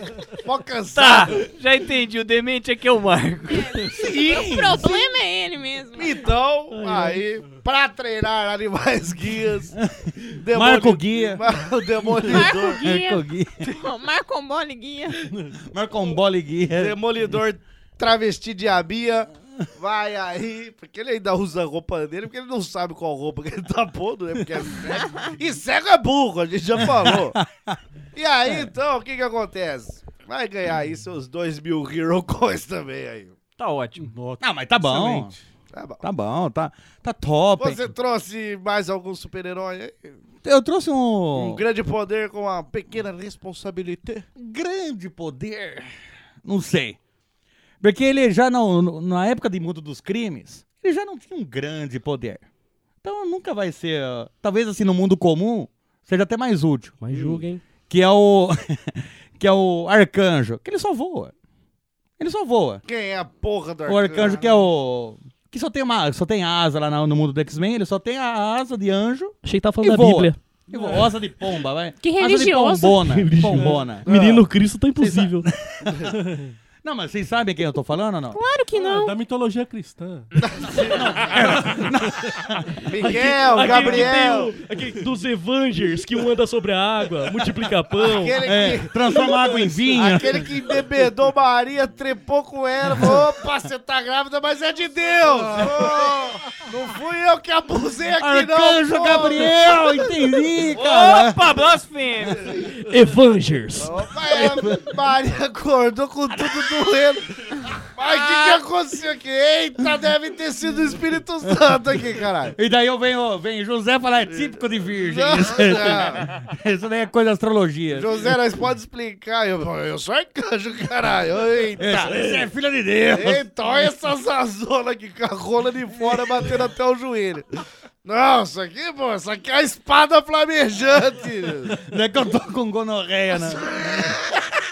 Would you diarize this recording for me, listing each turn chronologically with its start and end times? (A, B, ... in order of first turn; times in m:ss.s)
0:00.4-0:01.4 A
0:00.9-0:03.9 B
0:03.5-0:06.2 C
0:03.9-0:05.0 D
0:06.0-0:09.7 A
0:06.7-0:07.2 E
0:09.8-0:11.4 D
0:10.4-0:12.9 A
0:12.2-0:15.3 C
0:12.3-0:13.6 D
0:15.6-0:17.0 D
0:16.7-0:27.3 A
0:27.0-0:27.8 D
0:28.1-0:33.3 A
0:33.6-0:34.1 B
0:34.0-0:35.4 F
0:34.4-0:35.3 D
0:35.7-0:36.0 A
0:36.0-0:37.8 D
0:37.6-0:40.2 A
0:40.4-0:41.6 D
0:41.3-0:44.3 A
0:44.4-0:45.9 D
0:46.4-0:47.0 D
0:47.8-0:52.4 D
0:53.0-1:01.3 D
0:57.0-0:57.6 E
1:02.2-1:02.8 D
1:02.8-1:04.5 A
1:03.8-1:14.1 D
1:09.4-1:10.4 E
1:10.7-1:11.2 F
1:12.0-1:13.1 C
1:13.1-1:15.4 E
1:14.0-1:14.5 A
1:15.0-1:16.2 D
1:16.2-1:16.5 F
1:16.8-1:18.4 D
1:18.3-1:19.2 C
1:18.7-1:20.3 F
1:20.4-1:21.0 A
1:20.7-1:22.8 D
1:21.4-1:22.3 F
1:22.9-1:24.5 A
1:23.0-1:28.4 E
1:23.8-1:24.0 D
1:28.0-1:40.0 A
1:28.4-1:30.5 D
1:35.2-1:36.1 F
1:38.2-1:41.4 D
1:40.7-1:41.1 A
1:40.8-1:42.6 B
1:42.8-1:43.9 E
1:43.8-1:52.6 A
1:44.3-1:44.9 D
1:48.0-1:48.6 D
1:52.6-1:58.3 D
1:54.3-1:56.5 A
1:57.9-2:02.4 A
2:01.8-2:03.4 D
2:03.1-2:11.8 A
2:06.2-2:06.5 D
2:11.8-2:14.2 D
2:13.5-2:14.4 A